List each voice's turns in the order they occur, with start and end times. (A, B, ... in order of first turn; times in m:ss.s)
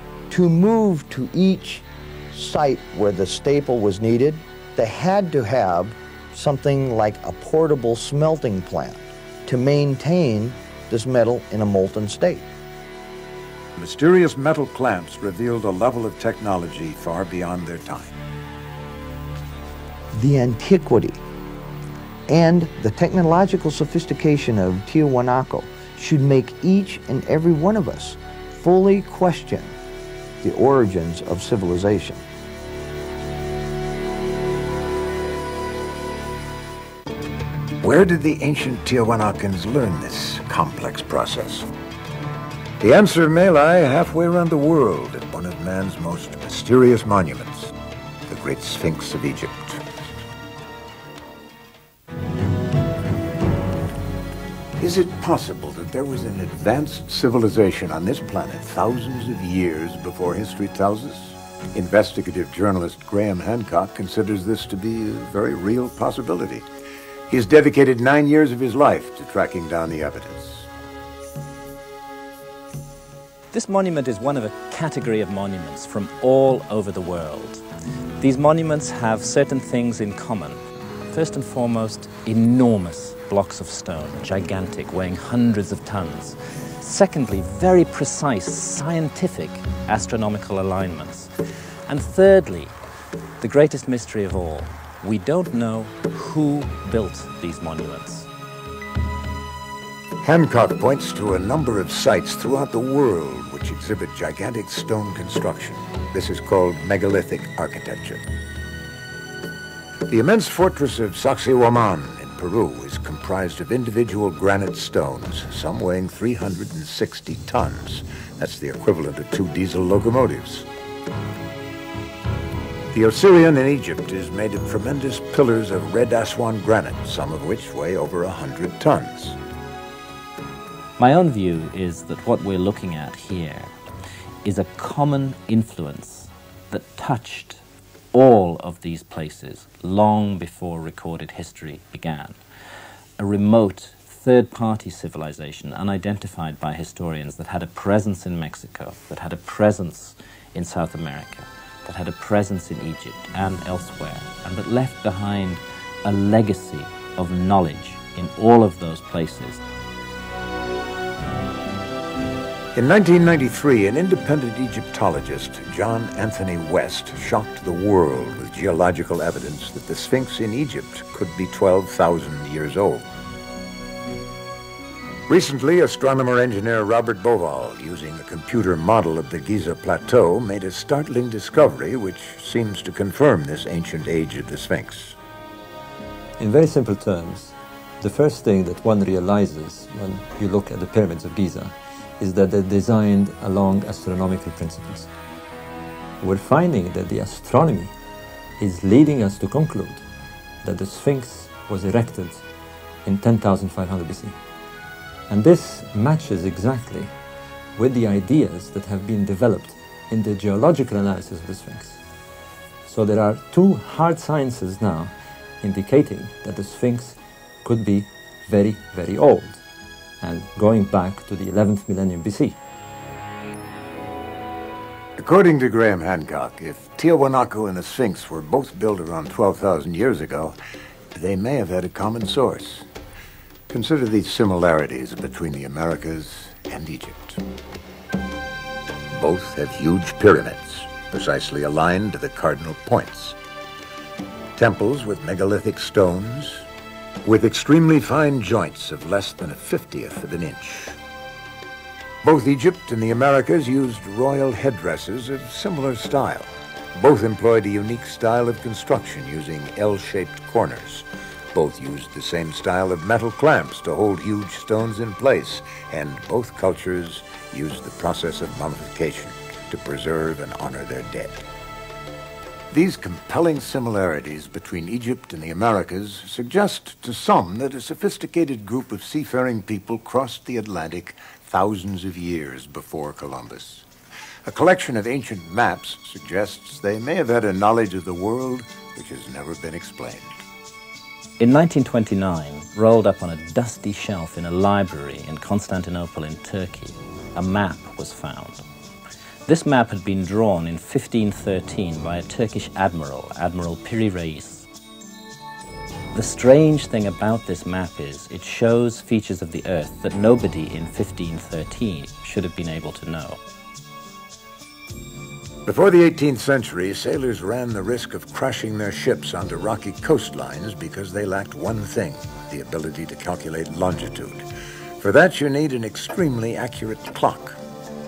0:00.3-0:12.5 A
0:13.8-0:18.2 B
0:20.1-0:21.2 A
0:22.3-0:29.8 A
0:30.4-0:32.2 A
0:37.8-0:41.7 B
0:42.8-0:47.7 B
0:48.3-0:50.0 B
0:54.8-1:06.6 B
1:07.3-1:10.7 B
1:13.5-1:17.6 C
1:18.2-1:20.6 C
1:21.1-1:31.3 C
1:31.9-1:32.7 C
1:33.4-1:38.3 C
1:40.2-1:48.2 B
1:50.1-2:00.7 B
2:02.9-2:09.4 B
2:11.0-2:13.8 C
2:14.4-2:17.6 C
2:18.1-2:22.4 C
2:23.2-2:39.6 C
2:42.8-2:53.1 B
2:55.3-3:05.2 B
3:06.4-3:15.1 D
3:16.2-3:17.9 D
3:18.6-3:20.0 D
3:20.6-3:22.4 D
3:23.0-3:24.4 D
3:25.3-3:27.1 D
3:27.8-3:32.0 D
3:32.8-3:39.6 D
3:40.2-3:42.6 D
3:45.2-3:50.6 B
3:51.1-3:52.8 B
3:53.7-3:57.4 B
3:59.1-4:03.4 B
4:04.6-4:06.7 B
4:07.2-4:11.0 B
4:12.2-4:31.4 B
4:32.7-4:43.9 B
4:44.5-4:50.4 B
4:51.4-4:58.6 C
4:59.5-5:04.7 C
5:06.1-5:13.4 C
5:15.7-5:24.5 B
5:25.0-5:27.6 B